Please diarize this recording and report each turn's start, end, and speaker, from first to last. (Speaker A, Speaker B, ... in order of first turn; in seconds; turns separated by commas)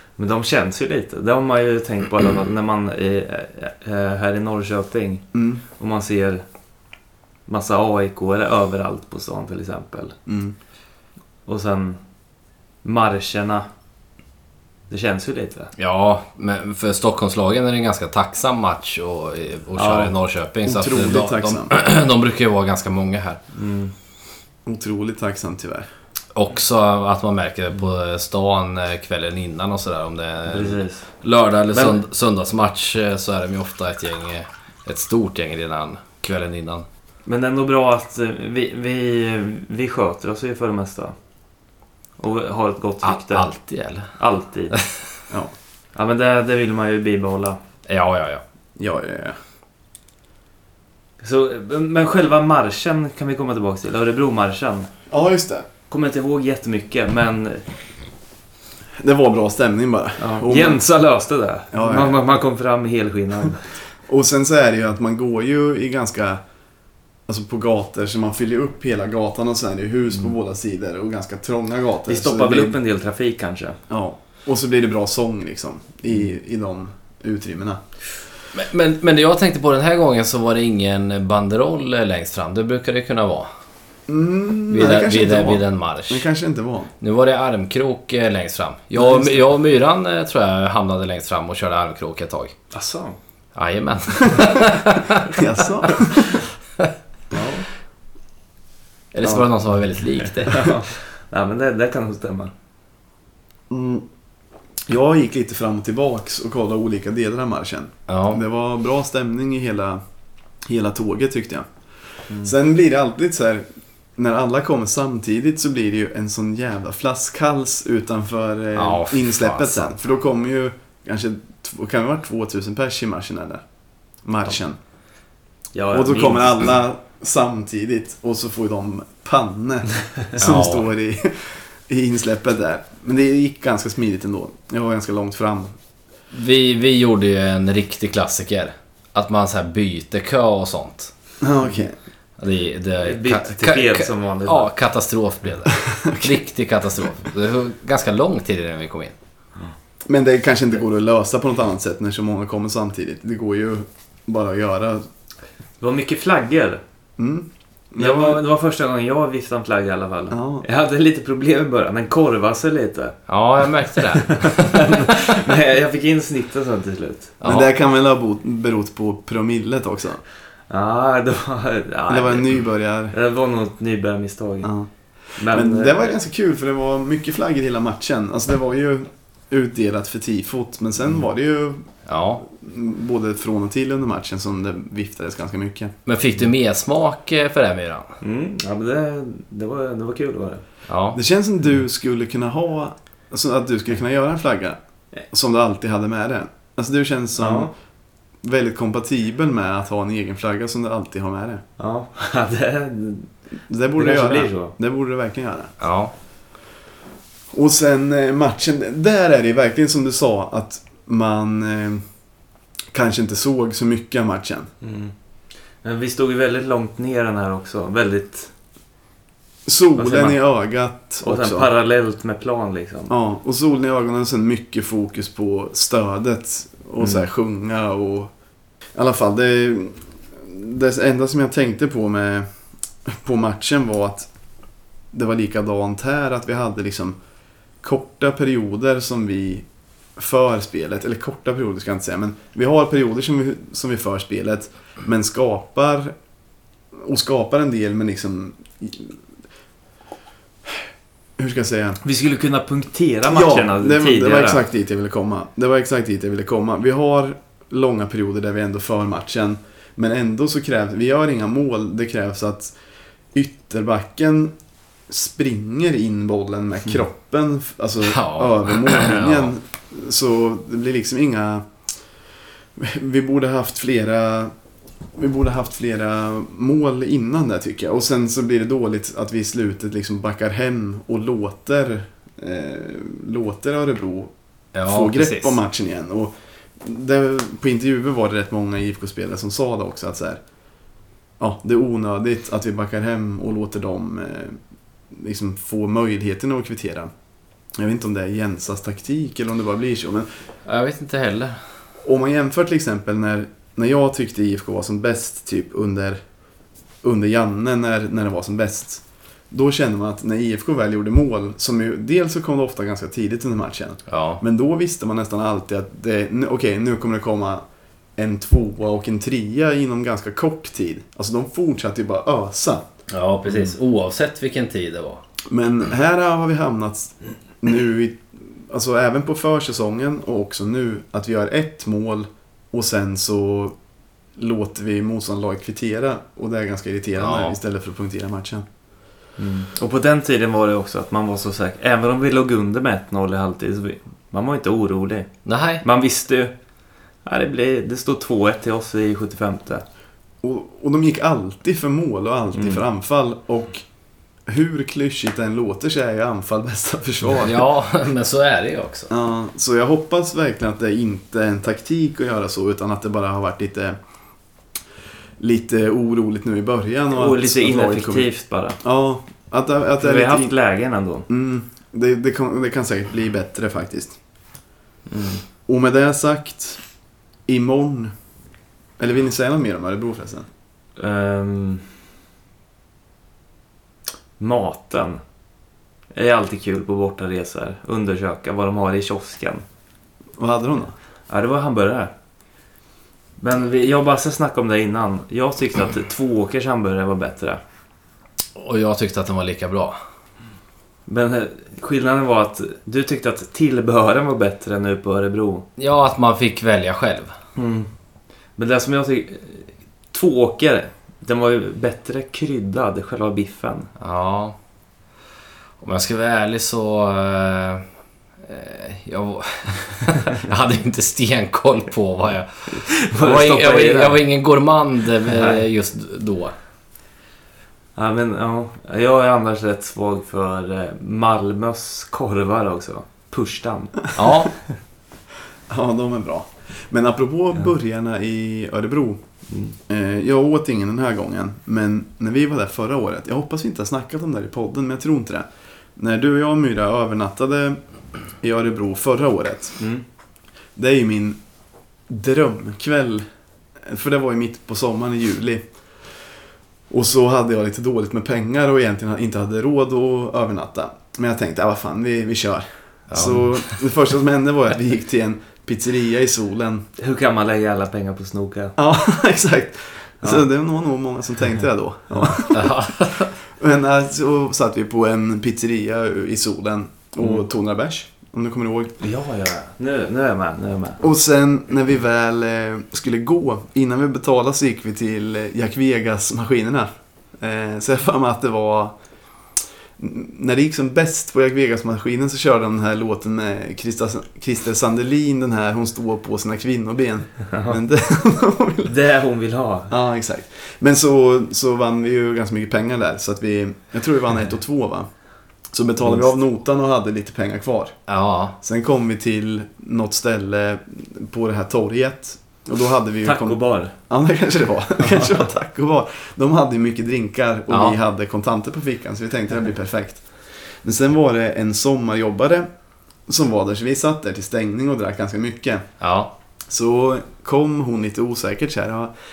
Speaker A: 0.2-5.2, Speaker B: 5.3-5.6, Speaker A: 5.8-6.4, Speaker A: 7.5-10.2, Speaker B: 10.2-10.5, Speaker A: 11.5-12.0, Speaker A: 12.8-13.7, Speaker A: 14.9-15.7, Speaker C: 15.8-23.4, Speaker A: 19.8-20.1, Speaker B: 20.6-21.7, Speaker A: 23.5-23.9, Speaker B: 24.6-25.9, Speaker C: 26.3-36.9, Speaker A: 30.5-31.1, Speaker A: 31.7-32.0, Speaker A: 37.2-41.1, Speaker A: 42.2-43.5, Speaker C: 43.0-44.1, Speaker A: 44.1-44.8, Speaker A: 45.9-47.6, Speaker C: 47.9-48.4, Speaker B: 48.8-49.4, Speaker A: 51.2-54.9, Speaker B: 55.1-55.7, Speaker A: 55.9-57.6, Speaker B: 59.0-60.8, Speaker A: 60.2-63.7, Speaker B: 61.7-62.2, Speaker B: 64.1-66.4, Speaker B: 67.3-72.8, Speaker A: 72.1-73.8, Speaker B: 73.9-77.8, Speaker C: 78.5-83.5, Speaker B: 84.1-86.9, Speaker C: 84.7-86.3, Speaker C: 87.0-92.5, Speaker B: 89.0-89.4, Speaker A: 92.7-93.2, Speaker C: 93.5-95.3, Speaker B: 94.2-94.6, Speaker B: 95.3-96.4, Speaker A: 97.3-97.6, Speaker C: 99.1-100.7, Speaker A: 100.4-102.5, Speaker B: 103.7-104.0, Speaker B: 104.9-110.0, Speaker C: 108.1-108.4, Speaker B: 110.7-111.7, Speaker B: 112.4-113.7, Speaker B: 114.2-123.6, Speaker C: 118.8-119.9, Speaker B: 124.2-124.8, Speaker A: 125.7-126.5, Speaker B: 125.9-135.7, Speaker C: 130.4-130.9, Speaker C: 136.3-141.1, Speaker B: 141.4-141.9, Speaker C: 142.4-149.1, Speaker A: 143.0-144.7, Speaker B: 145.9-146.4, Speaker B: 150.1-155.1, Speaker A: 155.8-156.8, Speaker B: 157.2-158.4, Speaker A: 158.0-163.2, Speaker B: 160.3-160.6, Speaker C: 163.3-165.1, Speaker A: 163.9-167.4, Speaker C: 167.4-167.7, Speaker B: 167.4-170.2, Speaker A: 170.7-172.4, Speaker B: 172.1-173.1, Speaker A: 173.1-174.7, Speaker B: 174.6-174.9, Speaker A: 175.4-176.1, Speaker B: 175.5-181.8, Speaker C: 182.1-182.4, Speaker B: 182.4-186.0, Speaker C: 186.1-188.1, Speaker A: 188.2-190.6, Speaker C: 190.9-191.2, Speaker B: 191.1-194.8, Speaker B: 195.3-197.7, Speaker A: 197.4-197.7, Speaker B: 198.4-201.6, Speaker A: 201.8-203.3, Speaker B: 203.7-205.7, Speaker A: 204.0-204.7, Speaker C: 205.8-206.1, Speaker B: 207.5-212.0, Speaker B: 212.9-214.7, Speaker A: 214.8-215.1, Speaker A: 215.8-218.5, Speaker B: 219.7-221.7, Speaker A: 219.9-220.4, Speaker A: 221.2-223.1, Speaker B: 223.1-228.3, Speaker B: 228.9-232.5, Speaker B: 233.1-234.3, Speaker B: 235.1-237.2, Speaker B: 237.8-239.6, Speaker B: 240.2-246.1, Speaker B: 246.9-249.2, Speaker B: 251.4-252.0, Speaker A: 252.0-254.6, Speaker B: 253.3-262.7, Speaker B: 263.3-264.5, Speaker B: 265.1-271.6, Speaker C: 268.0-269.5, Speaker B: 272.8-274.5, Speaker B: 275.2-284.3, Speaker C: 284.7-285.6, Speaker B: 284.8-290.4, Speaker B: 291.4-294.6, Speaker B: 295.1-297.1, Speaker B: 297.8-300.3, Speaker C: 300.6-301.6, Speaker B: 302.0-306.2, Speaker B: 307.0-317.6, Speaker C: 314.1-314.4, Speaker B: 318.2-322.8, Speaker C: 323.1-325.2, Speaker B: 325.5-333.7, Speaker B: 334.4-338.6, Speaker C: 337.2-337.6, Speaker A: 339.4-345.3, Speaker C: 345.4-345.8, Speaker A: 345.8-346.5, Speaker A: 347.2-349.8, Speaker B: 350.4-353.8, Speaker A: 352.5-352.8, Speaker B: 354.5-357.6, Speaker C: 357.4-359.1, Speaker B: 359.1-364.0, Speaker B: 365.4-368.3, Speaker A: 367.1-368.8, Speaker B: 368.8-370.5, Speaker A: 370.0-371.2, Speaker B: 371.3-374.2, Speaker A: 375.1-375.4, Speaker B: 375.7-376.8, Speaker B: 377.5-378.1, Speaker B: 379.0-380.5, Speaker A: 381.0-381.8, Speaker A: 384.4-385.2, Speaker A: 386.1-389.6, Speaker B: 390.4-390.9, Speaker A: 391.3-392.1, Speaker A: 393.4-397.6, Speaker C: 398.6-400.0, Speaker A: 401.1-405.6, Speaker C: 405.8-407.3, Speaker A: 407.6-407.9, Speaker A: 408.6-413.9, Speaker C: 414.0-414.6, Speaker C: 415.8-417.8, Speaker C: 418.4-426.5, Speaker A: 422.7-424.2, Speaker A: 425.2-425.6, Speaker A: 427.9-434.1, Speaker C: 434.1-434.5, Speaker B: 435.7-439.2, Speaker B: 439.9-445.4, Speaker B: 446.0-447.8, Speaker B: 448.4-449.8, Speaker B: 450.8-451.4, Speaker B: 452.1-453.2, Speaker B: 453.8-455.6, Speaker B: 456.9-466.9, Speaker C: 463.1-463.6, Speaker A: 467.0-468.8, Speaker B: 468.8-472.8, Speaker C: 472.5-473.3, Speaker B: 473.6-478.9, Speaker A: 479.0-481.0, Speaker B: 481.0-488.9, Speaker B: 490.0-498.9, Speaker A: 497.5-497.8, Speaker A: 498.8-499.9, Speaker B: 499.9-505.1, Speaker B: 505.7-508.0, Speaker C: 508.1-508.6, Speaker B: 508.6-520.2, Speaker A: 513.2-513.9, Speaker A: 515.0-515.4, Speaker C: 517.7-518.0, Speaker B: 520.8-522.7, Speaker B: 523.3-525.9, Speaker C: 526.0-526.3, Speaker B: 526.7-529.1